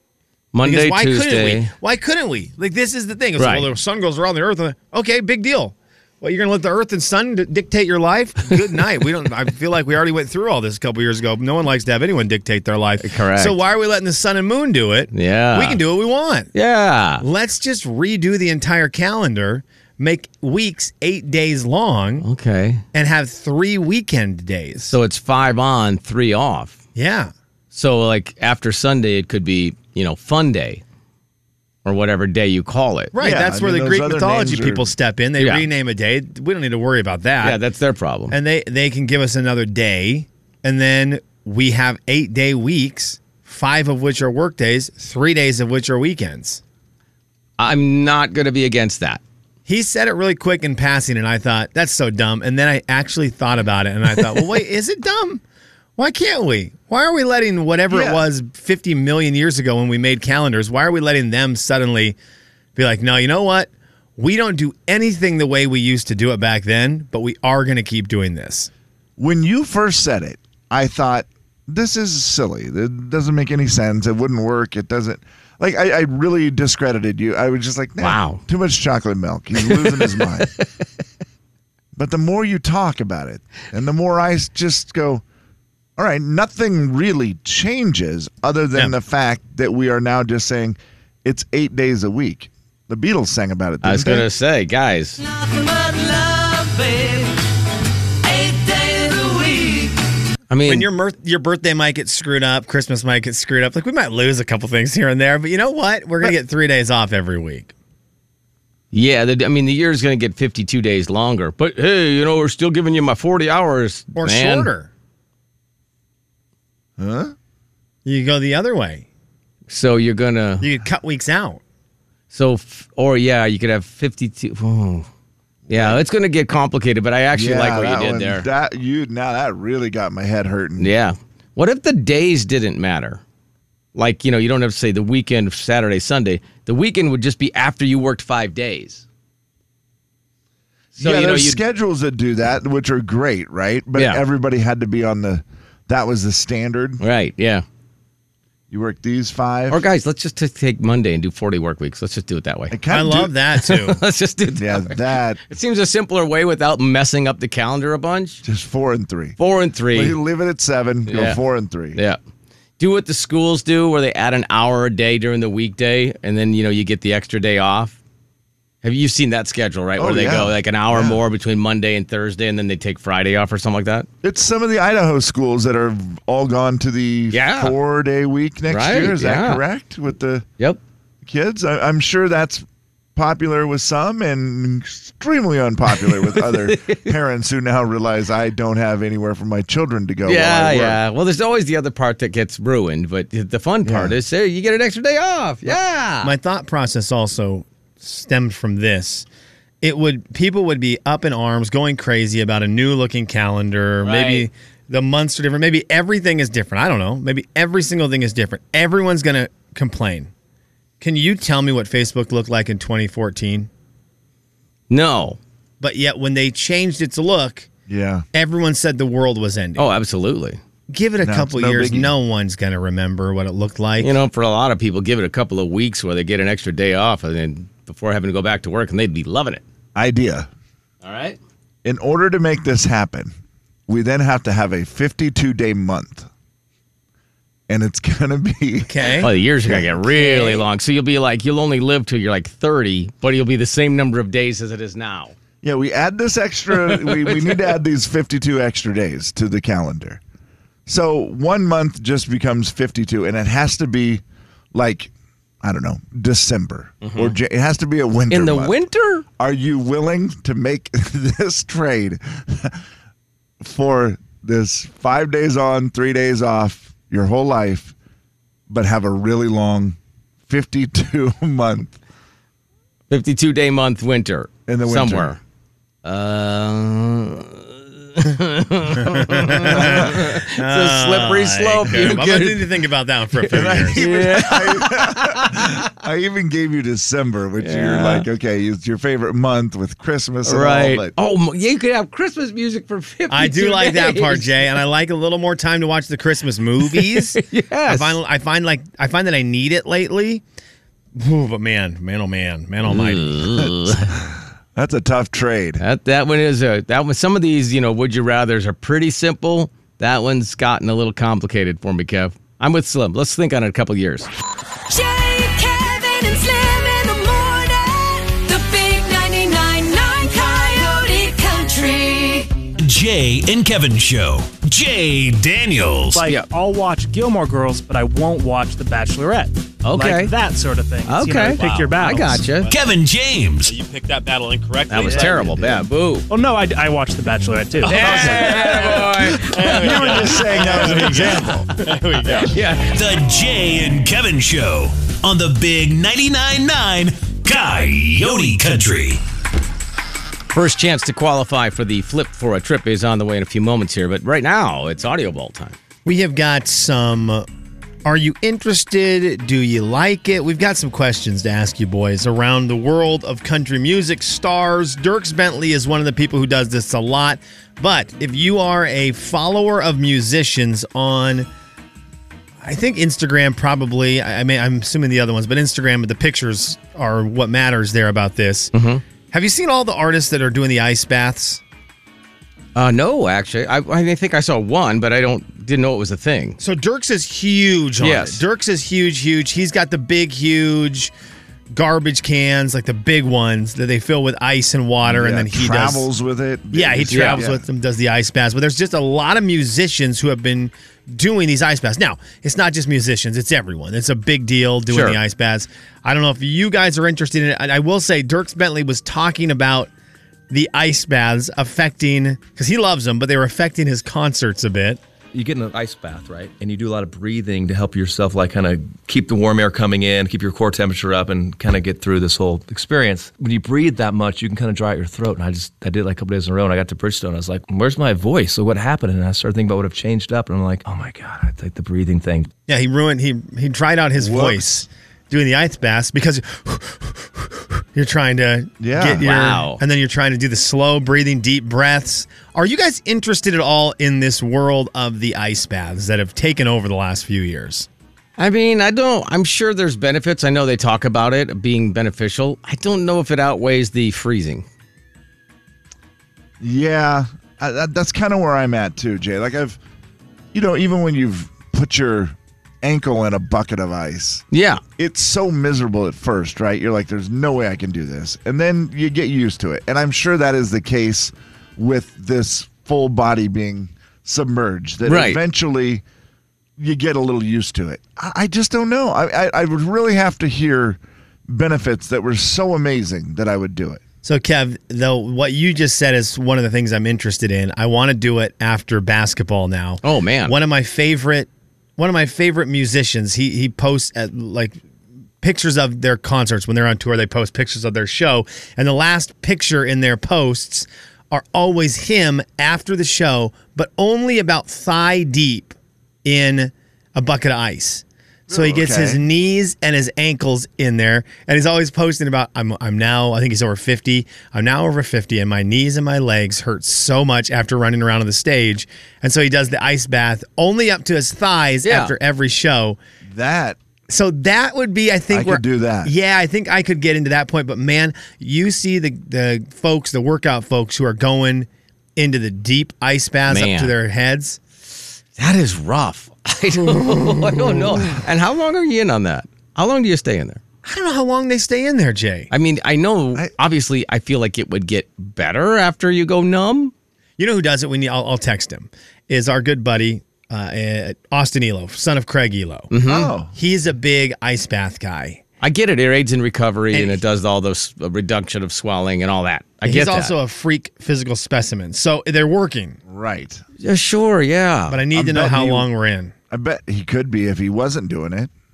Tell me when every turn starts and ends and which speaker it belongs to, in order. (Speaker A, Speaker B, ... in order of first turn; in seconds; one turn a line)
Speaker A: 0.5-1.7
Speaker B: 0.6-16.5
Speaker A: 3.4-3.7
Speaker A: 13.0-13.6
Speaker A: 15.1-15.8
Speaker A: 16.5-17.2
Speaker B: 17.2-22.3
Speaker A: 22.2-22.8
Speaker B: 22.9-25.0
Speaker A: 24.9-26.8
Speaker B: 26.9-27.3
Speaker A: 27.7-30.8
Speaker A: 31.9-33.1
Speaker B: 33.1-37.6
Speaker C: 33.2-34.9
Speaker A: 35.4-35.7
Speaker A: 37.4-38.4
Speaker B: 38.3-46.6
Speaker A: 47.6-49.2
Speaker B: 49.7-55.4
Speaker B: 56.0-62.2
Speaker C: 57.9-58.2
Speaker B: 62.8-68.7
Speaker C: 69.2-80.5
Speaker A: 78.0-78.4
Speaker A: 79.7-80.3
Speaker C: 82.0-85.2
Speaker C: 86.0-94.3
Speaker A: 93.8-95.2
Speaker D: 95.2-97.3
Speaker D: 98.2-99.9
Speaker A: 100.5-100.9
Speaker B: 100.7-107.7
Speaker A: 108.9-114.7
Speaker B: 114.2-114.9
Speaker C: 117.0-117.3
Speaker B: 118.0-119.1
Speaker A: 119.7-120.7
Speaker B: 120.6-121.6
Speaker A: 122.3-125.1
Speaker C: 125.7-126.0
Speaker A: 125.7-128.5
Speaker C: 127.3-130.9
Speaker A: 130.8-133.2
Speaker A: 133.9-139.0
Speaker C: 141.0-147.0
Speaker A: 141.0-141.6
Speaker A: 144.0-144.2
Speaker A: 147.0-147.6
Speaker C: 148.7-149.8
Speaker A: 149.7-152.8
Speaker C: 152.7-153.3
Speaker B: 152.9-154.0
Speaker A: 153.6-158.4
Speaker C: 154.6-155.4
Speaker C: 158.4-159.4
Speaker A: 159.4-160.2
Speaker C: 159.9-162.0
Speaker A: 161.1-161.4
Speaker A: 161.9-162.2
Speaker A: 162.8-168.0
Speaker A: 168.8-174.1
Speaker C: 170.0-171.2
Speaker C: 174.2-180.5
Speaker A: 177.3-177.7
Speaker A: 178.7-179.6
Speaker C: 181.2-182.7
Speaker C: 183.2-191.0
Speaker A: 186.0-187.1
Speaker A: 190.3-196.3
Speaker C: 193.8-194.2
Speaker B: 196.2-199.3
Speaker B: 199.8-210.3
Speaker A: 204.0-204.5
Speaker B: 211.0-213.7
Speaker A: 214.9-215.4
Speaker B: 215.8-217.7
Speaker C: 217.9-218.3
Speaker B: 218.3-219.9
Speaker A: 219.8-220.6
Speaker B: 220.9-224.1
Speaker C: 221.2-222.1
Speaker A: 224.0-229.6
Speaker C: 229.9-230.5
Speaker A: 231.0-231.4
Speaker C: 231.8-233.3
Speaker C: 233.9-236.3
Speaker C: 237.7-239.1
Speaker B: 238.8-239.3
Speaker A: 239.2-245.3
Speaker C: 239.6-240.0
Speaker B: 240.2-240.6
Speaker C: 245.6-250.2
Speaker A: 246.8-247.8
Speaker C: 250.9-254.2
Speaker C: 254.7-255.1
Speaker C: 255.6-258.8
Speaker A: 257.0-257.4
Speaker A: 258.3-259.2
Speaker C: 259.4-262.8
Speaker C: 263.6-267.9
Speaker C: 268.7-270.0
Speaker C: 270.5-271.9
Speaker A: 273.1-275.4
Speaker C: 274.7-275.3
Speaker A: 276.0-282.7
Speaker B: 279.0-284.0
Speaker C: 279.7-280.3
Speaker C: 283.5-291.1
Speaker A: 283.6-285.8
Speaker A: 287.6-288.2
Speaker A: 290.5-294.8
Speaker B: 293.3-300.4
Speaker A: 296.8-298.2
Speaker B: 301.2-303.4
Speaker A: 302.9-304.1
Speaker C: 303.6-305.8
Speaker A: 305.8-314.3
Speaker D: 314.9-322.5
Speaker E: 322.8-326.3
Speaker F: 326.1-332.5
Speaker A: 329.8-330.3
Speaker A: 331.1-332.7
Speaker B: 332.5-332.7
Speaker E: 332.7-333.7
Speaker B: 333.6-335.8
Speaker A: 334.9-336.3
Speaker F: 336.3-338.6
Speaker A: 337.8-340.9
Speaker C: 337.9-341.7
Speaker B: 338.0-342.5
Speaker A: 342.3-342.9
Speaker E: 342.7-349.2
Speaker A: 350.5-355.8
Speaker B: 356.1-357.5
Speaker B: 358.1-371.5
Speaker B: 372.6-378.7
Speaker A: 378.7-379.0
Speaker B: 379.3-381.6
Speaker A: 382.8-386.6
Speaker B: 386.6-391.1
Speaker A: 388.0-388.4
Speaker B: 391.7-396.1
Speaker C: 395.0-397.6
Speaker B: 396.7-409.9
Speaker A: 397.1-397.4
Speaker A: 404.9-405.2
Speaker B: 410.5-415.0
Speaker G: 415.3-432.5
Speaker B: 432.7-447.9
Speaker C: 434.2-434.7
Speaker C: 438.8-439.3
Speaker A: 439.2-439.8
Speaker A: 448.4-454.6
Speaker C: 456.6-459.8
Speaker C: 460.5-464.4
Speaker A: 464.5-464.8
Speaker C: 465.0-476.0
Speaker A: 475.1-475.4
Speaker C: 476.8-484.0
Speaker B: 484.2-494.8
Speaker A: 490.0-490.5
Speaker B: 495.4-523.0
Speaker C: 508.5-509.2
Speaker A: 521.9-522.1
Speaker C: 523.3-523.8
Speaker B: 524.1-534.6
Speaker C: 525.3-526.1
Speaker A: 533.5-533.9
Speaker A: 535.4-540.6
Speaker B: 540.9-542.5
Speaker A: 542.5-546.9
Speaker B: 547.4-552.9
Speaker A: 552.9-553.3
Speaker C: 553.0-553.5
Speaker B: 553.5-555.4
Speaker A: 555.6-560.3
Speaker B: 556.9-557.2
Speaker B: 559.8-563.0
Speaker C: 563.1-563.6
Speaker A: 563.8-565.0
Speaker B: 564.9-566.3
Speaker C: 565.1-565.9
Speaker C: 566.5-568.5